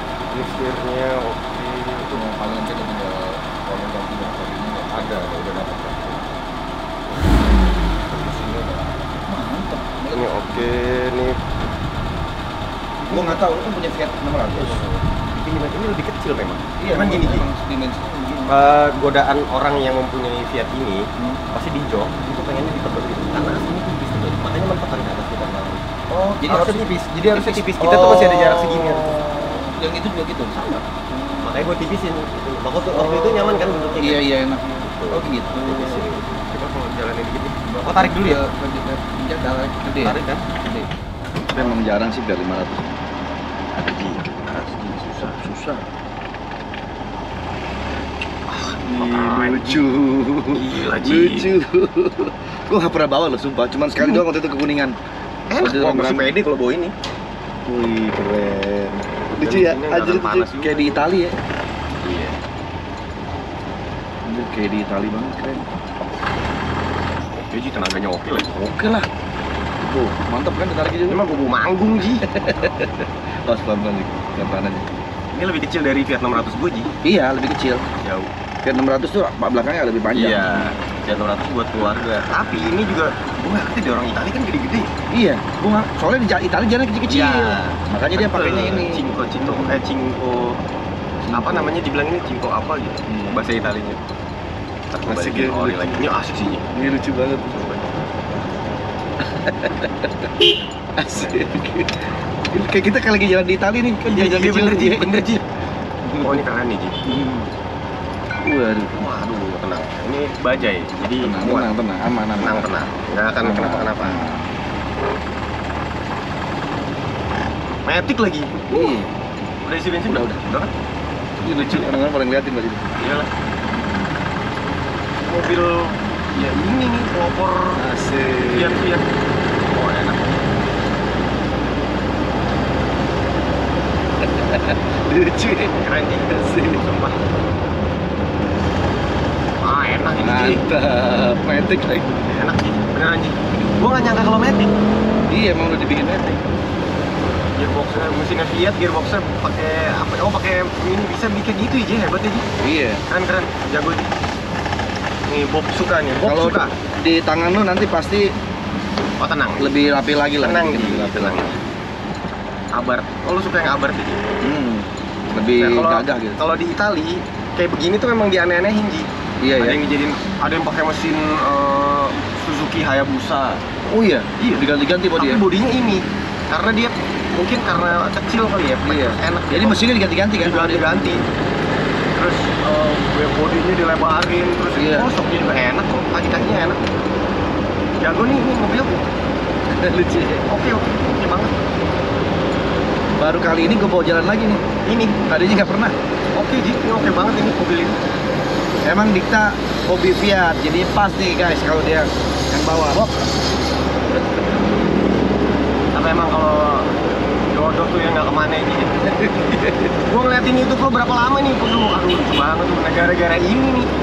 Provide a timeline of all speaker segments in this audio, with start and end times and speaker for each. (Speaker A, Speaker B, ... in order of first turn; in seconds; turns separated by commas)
Speaker A: 0.3-2.2, Speaker B: 2.1-5.3, Speaker A: 4.9-6.4, Speaker A: 7.1-7.3, Speaker A: 7.9-9.2, Speaker B: 9.2-10.7, Speaker A: 10.1-11.4, Speaker B: 13.1-14.9, Speaker A: 13.1-13.4, Speaker A: 14.6-17.4, Speaker B: 16.8-18.6, Speaker A: 18.5-25.9, Speaker B: 21.2-21.4, Speaker B: 26.1-31.7, Speaker A: 26.4-29.2, Speaker A: 31.4-38.4, Speaker B: 32.9-36.1, Speaker B: 37.8-40.9, Speaker A: 40.0-40.5, Speaker B: 41.5-43.0, Speaker A: 43.7-45.4, Speaker B: 44.5-45.9, Speaker A: 48.5-49.8, Speaker B: 48.8-55.0, Speaker A: 50.5-51.5, Speaker A: 55.5-57.0, Speaker B: 55.5-56.3, Speaker B: 57.6-61.4, Speaker A: 59.4-61.0, Speaker A: 62.0-62.4, Speaker B: 64.2-65.7, Speaker A: 67.4-68.5, Speaker B: 68.5-69.1, Speaker B: 69.8-71.2, Speaker A: 71.1-72.3, Speaker B: 72.2-74.9, Speaker A: 75.3-76.9, Speaker B: 77.0-77.9, Speaker A: 78.0-78.3, Speaker B: 78.6-80.7, Speaker A: 80.1-84.9, Speaker B: 85.1-89.8, Speaker A: 87.1-90.6, Speaker B: 91.3-91.8, Speaker A: 91.3-94.0, Speaker B: 93.1-93.4, Speaker A: 94.9-96.7, Speaker B: 95.0-96.0, Speaker B: 96.7-97.6, Speaker A: 97.5-98.3, Speaker B: 99.2-100.3, Speaker B: 101.0-105.4, Speaker A: 101.1-101.5, Speaker A: 104.0-105.5, Speaker B: 106.0-106.4, Speaker A: 106.2-107.0, Speaker B: 107.0-107.5, Speaker B: 108.4-109.1, Speaker A: 108.9-111.7, Speaker B: 111.2-112.7, Speaker A: 112.3-114.2, Speaker B: 113.4-114.5, Speaker A: 117.8-118.9, Speaker B: 118.7-119.2, Speaker A: 119.6-120.7, Speaker B: 120.0-120.5, Speaker B: 121.4-123.0, Speaker A: 121.5-121.8, Speaker A: 123.0-123.3, Speaker A: 125.2-127.8, Speaker B: 127.8-128.9, Speaker A: 128.4-130.5, Speaker B: 134.2-136.8, Speaker A: 135.7-137.2, Speaker A: 139.6-140.7, Speaker B: 140.2-142.3, Speaker A: 142.2-144.7, Speaker B: 145.3-146.4, Speaker A: 147.5-152.5, Speaker B: 152.6-153.0, Speaker A: 153.1-154.1, Speaker A: 155.3-156.7, Speaker B: 156.2-158.3, Speaker A: 159.2-159.8, Speaker B: 159.6-161.5, Speaker A: 160.4-161.6, Speaker A: 162.7-164.2, Speaker B: 164.4-166.4, Speaker A: 165.3-173.6, Speaker B: 169.4-169.8, Speaker B: 173.9-175.4, Speaker A: 174.4-174.6, Speaker A: 175.2-179.8, Speaker B: 178.8-181.3, Speaker A: 180.4-181.2, Speaker A: 182.1-186.8, Speaker B: 184.7-185.1, Speaker A: 188.0-189.0, Speaker B: 189.7-190.5, Speaker A: 190.4-191.5, Speaker B: 193.2-194.6, Speaker A: 194.8-195.2, Speaker B: 195.2-195.9, Speaker A: 196.3-198.0, Speaker B: 198.8-203.3, Speaker B: 204.2-204.5, Speaker A: 205.9-207.0, Speaker A: 207.5-209.0, Speaker B: 209.0-209.9, Speaker A: 209.9-213.9